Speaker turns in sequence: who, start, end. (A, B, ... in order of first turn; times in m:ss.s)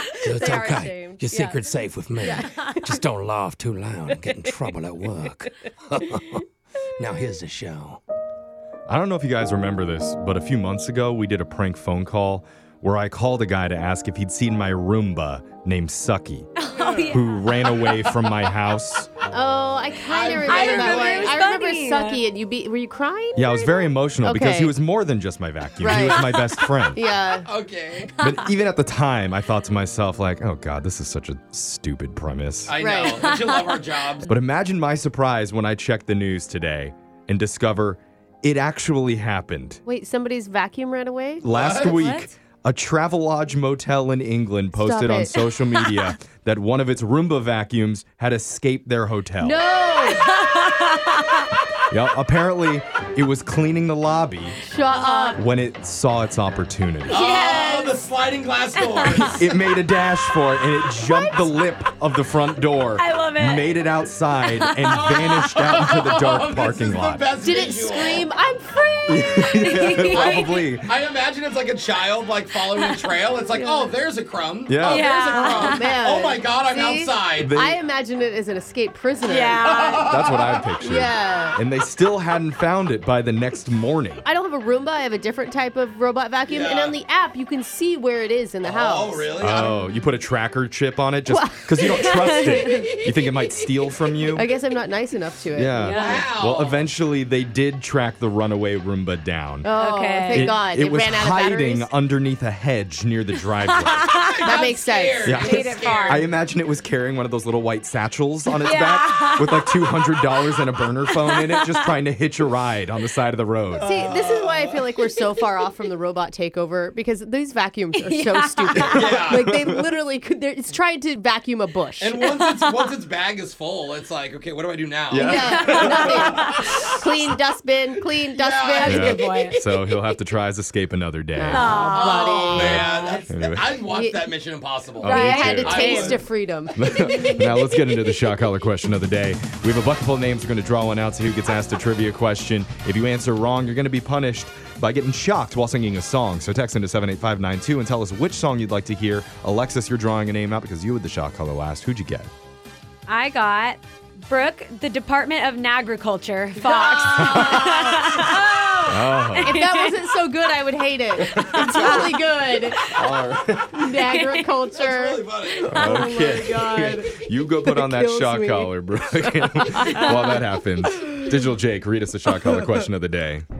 0:00.2-0:06.4 A
0:00.3-0:03.0 B
0:07.0-0:08.0 A
0:08.9-0:16.5 C
0:16.6-0:18.3 D
0:17.1-0:19.1 C
0:19.3-0:24.7 B
0:20.1-0:21.4 E
0:20.1-0:22.2 D
0:23.4-0:27.0 C
0:25.8-0:26.4 B
0:26.9-0:27.5 B
0:27.4-0:28.1 E
0:28.2-0:28.4 D
0:28.2-0:32.8 C
0:32.7-0:34.3 E
0:32.8-0:33.2 B
0:33.2-0:33.6 D
0:34.2-0:39.8 C
0:39.8-0:41.4 B
0:41.4-0:49.6 C
0:41.4-0:42.2 E
0:41.8-0:42.3 D
0:44.8-0:45.4 B
0:49.4-0:50.3 B
0:50.1-0:51.5 D
0:51.9-0:54.6 C
0:54.6-0:55.4 B
0:54.9-0:55.4 D
0:55.4-0:57.2 C
0:57.1-0:59.4 E
0:57.1-0:57.9 D
0:58.8-0:59.4 D
0:59.1-1:07.3 C
1:01.0-1:01.4 D
1:03.0-1:03.7 D
1:04.4-1:05.8 D
1:04.9-1:08.3 E
1:07.4-1:10.0 B
1:09.1-1:10.9 C
1:09.6-1:10.5 D
1:10.1-1:17.5 E
1:14.7-1:15.1 C
1:14.8-1:16.0 D
1:15.3-1:20.0 B
1:17.3-1:17.8 C
1:19.2-1:20.1 D
1:19.8-1:20.6 E
1:20.0-1:24.2 C
1:20.8-1:21.6 B
1:24.2-1:29.7 B
1:26.5-1:27.0 E
1:28.6-1:29.7 E
1:29.4-1:34.5 C
1:31.3-1:33.0 B
1:32.0-1:32.6 D
1:34.3-1:36.2 B
1:35.5-1:39.7 C
1:35.8-1:36.2 D
1:35.9-1:36.8 E
1:39.6-1:41.9 B
1:39.7-1:40.6 D
1:40.3-1:44.2 C
1:43.9-1:44.3 D
1:44.2-1:46.3 E
1:44.4-1:45.3 B
1:45.2-1:53.9 C
1:45.3-1:46.2 D
1:48.6-1:49.9 D
1:51.2-1:51.8 D
1:53.8-2:02.2 B
1:53.8-1:54.9 E
1:57.9-1:59.0 D
1:58.7-1:59.9 C
1:58.8-1:59.5 E
2:02.0-2:07.0 E
2:02.4-2:02.9 D
2:05.1-2:06.6 C
2:05.1-2:09.2 B
2:05.3-2:06.6 D
2:08.3-2:09.9 E
2:08.8-2:09.5 D
2:08.8-2:11.7 C
2:11.4-2:12.9 B
2:11.5-2:13.2 D
2:11.9-2:16.2 E
2:12.5-2:13.8 C
2:13.9-2:14.2 B
2:15.0-2:16.2 C
2:15.0-2:16.2 D
2:15.2-2:17.6 B
2:16.8-2:32.3 C
2:33.1-2:40.0 D
2:36.6-2:38.9 B
2:37.1-2:37.8 C
2:38.8-2:39.6 C
2:39.4-2:42.8 B
2:41.2-2:42.0 C
2:41.3-2:42.2 D
2:42.7-2:43.0 D
2:42.9-2:43.8 C
2:43.7-2:50.4 B
2:43.9-2:44.6 D
2:44.7-2:45.7 E
2:45.7-2:46.1 D
2:45.7-2:53.4 C
2:50.0-2:50.3 D